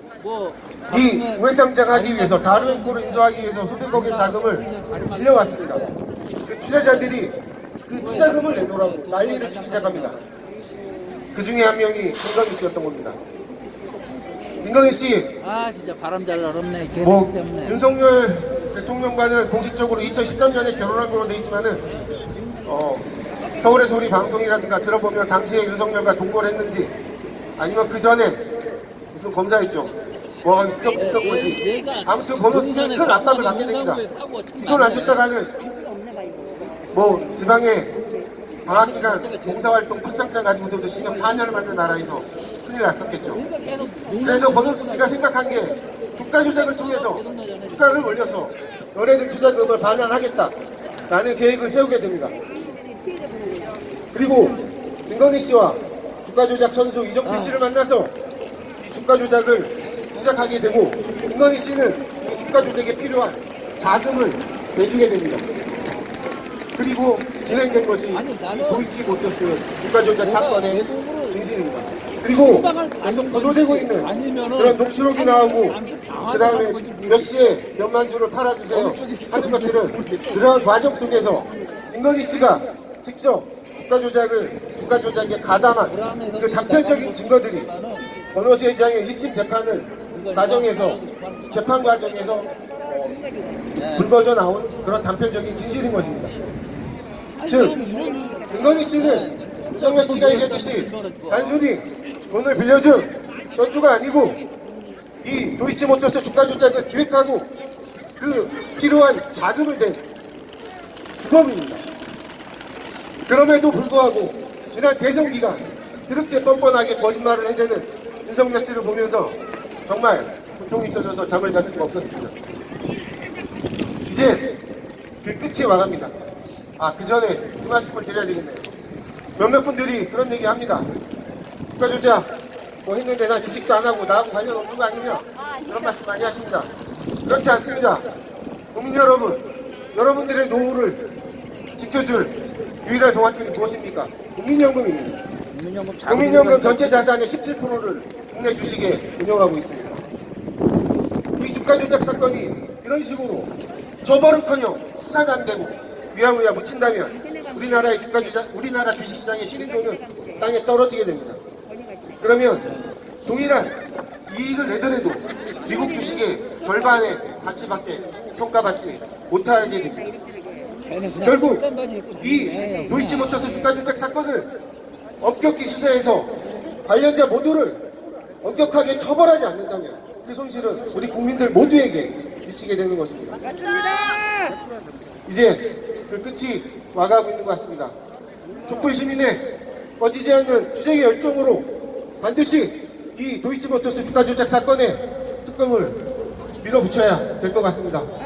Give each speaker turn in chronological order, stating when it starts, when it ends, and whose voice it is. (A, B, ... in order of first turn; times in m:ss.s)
0:00.2-0:03.3 A
0:00.9-0:05.8 B
0:03.9-0:06.0 A
0:06.4-0:10.2 B
0:06.7-0:07.2 A
0:07.9-0:10.2 A
0:11.3-0:13.2 B
0:14.6-0:15.4 B
0:15.4-0:17.8 A
0:17.0-0:21.8 B
0:22.6-0:23.1 B
0:23.6-0:26.9 B
0:27.6-0:28.4 B
0:29.1-0:34.0 B
0:30.9-0:35.2 A
0:34.6-0:35.6 B
0:36.9-0:38.0 B
0:38.6-0:39.8 A
0:38.6-0:43.4 B
0:43.2-0:45.2 A
0:44.2-0:50.5 B
0:46.4-0:48.2 A
0:51.1-0:52.4 B
0:54.1-0:58.1 B
0:57.2-0:57.6 A
0:58.8-1:05.4 B
1:06.8-1:15.8 B
1:08.1-1:08.9 A
1:10.2-1:11.4 A
1:12.3-1:17.5 A
1:16.3-1:27.7 B
1:18.7-1:20.5 A
1:25.9-1:28.1 A
1:28.3-1:33.2 B
1:30.1-1:31.8 A
1:33.8-1:34.1 A
1:33.8-1:36.3 B
1:37.4-1:41.6 A
1:37.4-1:37.8 B
1:38.5-1:44.4 B
1:45.2-1:47.5 B
1:48.2-1:50.0 B
1:51.2-1:51.8 B
1:53.3-2:02.3 B
2:04.1-2:04.5 B
2:05.2-2:06.1 B
2:06.8-2:08.7 B
2:09.4-2:10.9 B
2:11.7-2:12.3 B
2:12.8-2:16.7 B
2:17.2-2:18.0 B
2:18.7-2:21.0 B
2:21.8-2:25.2 B
2:25.5-2:27.1 A
2:26.1-2:30.0 B
2:31.4-2:33.5 B
2:34.0-2:41.4 B
2:42.2-2:42.7 B
2:43.2-2:43.8 B
2:44.3-2:50.2 B
2:50.8-2:53.7 A
2:51.2-2:51.6 B
2:52.2-2:54.5 B
2:55.2-2:56.3 B
2:56.8-2:57.8 B
2:58.4-3:03.4 B
3:05.3-3:07.9 B
3:08.6-3:11.7 B
3:12.2-3:16.0 B
3:16.6-3:18.1 B